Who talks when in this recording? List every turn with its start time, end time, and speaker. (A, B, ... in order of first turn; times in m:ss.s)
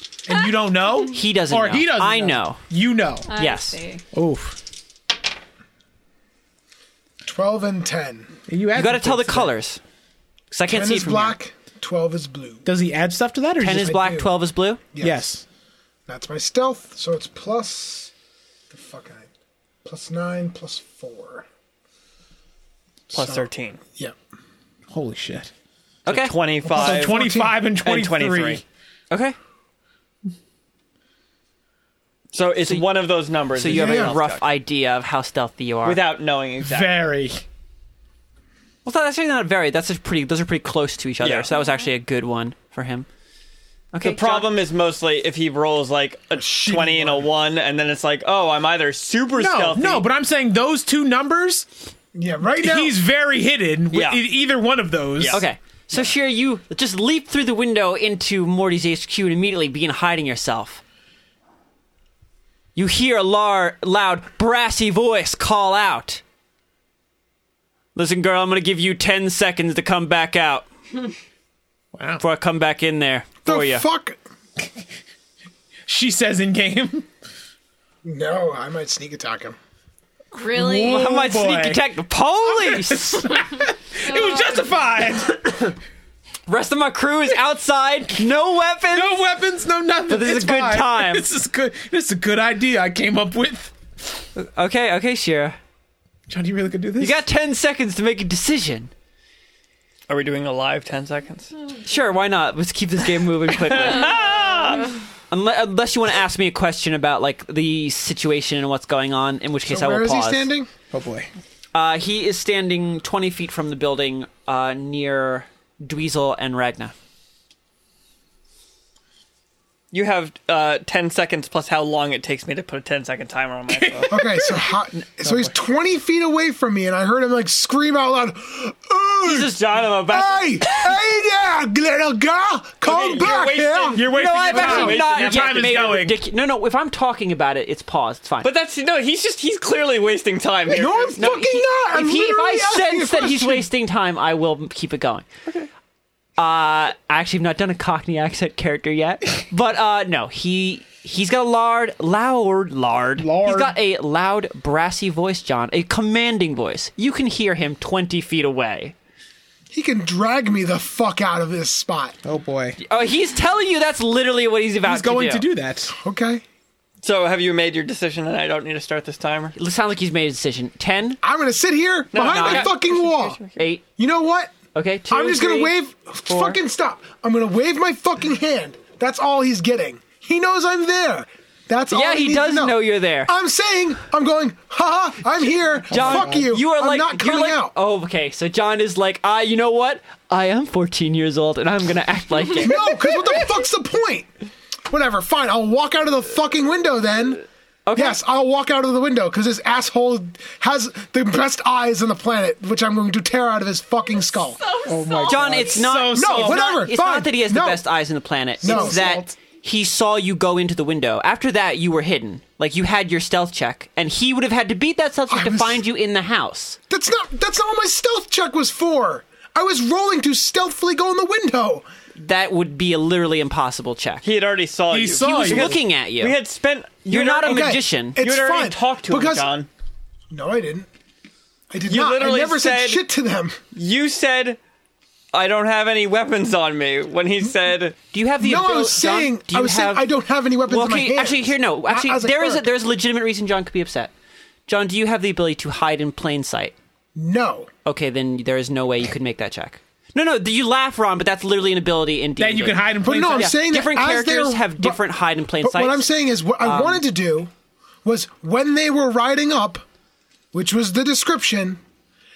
0:00.3-0:03.3 A
0:00.3-0:00.5 B
0:01.1-0:02.6 C
0:03.3-0:04.0 B
0:03.4-0:03.8 C
0:04.1-0:04.6 A
0:07.2-0:08.3 D
0:08.5-0:09.5 A
0:08.7-0:09.8 C
0:10.5-0:11.4 C
0:10.7-0:12.7 D
0:12.6-0:14.1 A
0:13.6-0:14.8 C
0:13.8-0:14.3 D
0:14.9-0:15.3 D
0:15.0-0:15.4 A
0:16.1-0:18.1 D
0:18.7-0:19.3 D
0:19.8-0:21.4 D
0:23.1-0:24.1 D
0:23.1-0:23.8 E
0:24.9-0:25.5 A
0:26.0-0:26.4 C
0:26.1-0:27.2 E
0:26.6-0:27.6 D
0:26.7-0:28.6 A
0:27.8-0:28.6 E
0:29.1-0:29.4 C
0:32.3-0:34.4 E
0:33.5-0:36.0 C
0:33.7-0:34.1 D
0:35.8-0:37.0 E
0:36.6-0:37.4 A
0:38.8-0:43.1 C
0:41.2-0:41.5 E
0:43.9-0:44.5 C
0:44.0-0:50.0 E
0:46.4-0:47.3 D
0:49.4-0:51.7 A
0:52.1-0:52.9 D
0:52.5-0:55.4 A
0:53.9-0:54.2 E
0:55.3-1:00.8 C
1:02.7-1:06.2 C
1:07.9-1:10.7 C
1:11.9-1:12.2 A
1:12.2-1:13.8 C
1:13.4-1:14.2 D
1:15.9-1:17.1 A
1:18.0-1:19.6 D
1:20.3-1:21.1 B
1:20.5-1:21.8 A
1:20.8-1:23.3 C
1:22.4-1:25.7 A
1:24.0-1:24.6 B
1:26.5-1:29.2 C
1:28.9-1:33.7 A
1:30.1-1:31.3 C
1:34.4-1:35.6 C
1:36.3-1:37.2 A
1:37.0-1:38.9 C
1:40.1-1:41.5 E
1:41.8-1:44.2 C
1:43.6-1:44.9 E
1:45.3-1:50.5 C
1:49.6-1:50.7 D
1:50.9-1:51.3 A
1:51.7-1:56.9 C
1:59.9-2:04.1 E
2:03.7-2:05.5 A
2:04.1-2:14.0 D
2:09.2-2:10.4 C
2:09.3-2:10.4 E
2:12.8-2:15.9 E
2:13.9-2:16.2 A
2:14.1-2:18.5 C
2:14.6-2:15.0 D
2:18.4-2:21.2 E
2:20.7-2:23.7 D
2:21.2-2:25.2 C
2:26.4-2:38.9 C
2:33.2-2:33.7 A
2:39.7-2:42.2 D
2:42.2-2:42.8 A
2:42.8-2:45.4 C
2:44.8-2:45.9 A
2:45.9-2:46.4 D
2:47.0-2:49.5 E
2:49.5-2:51.2 C
2:51.2-2:53.4 D
2:52.1-2:53.6 E
2:52.2-2:52.7 C
2:53.6-2:53.8 C
2:54.0-2:54.5 D
2:54.7-2:56.6 C
2:55.1-3:07.7 D
3:01.9-3:03.3 C
3:05.9-3:13.0 C
3:05.9-3:06.5 A
3:12.6-3:14.3 D
3:14.9-3:24.6 D
3:17.8-3:18.2 C
3:24.3-3:26.0 B
3:24.9-3:26.8 A
3:25.3-3:36.8 C
3:26.1-3:27.8 D
3:28.6-3:29.2 D
3:28.6-3:29.3 A
3:35.3-3:35.8 D
3:36.9-3:41.8 D
3:42.2-3:44.2 C
3:44.2-3:49.7 E
3:44.9-3:45.8 A
3:45.3-3:46.4 C
3:47.1-3:48.2 C
3:47.1-3:49.5 D
3:50.3-3:50.9 D
3:51.7-3:53.6 D
3:51.8-3:53.0 E
3:53.7-3:54.6 E
3:55.3-3:58.0 E
3:58.1-4:00.0 C
3:58.4-4:02.7 D
4:00.7-4:04.1 C
4:04.7-4:06.7 C
4:07.2-4:07.7 D
4:07.8-4:16.1 C
4:12.4-4:13.5 A
4:13.0-4:17.5 D
4:16.6-4:17.0 C
4:18.0-4:19.8 D
4:20.5-4:21.8 D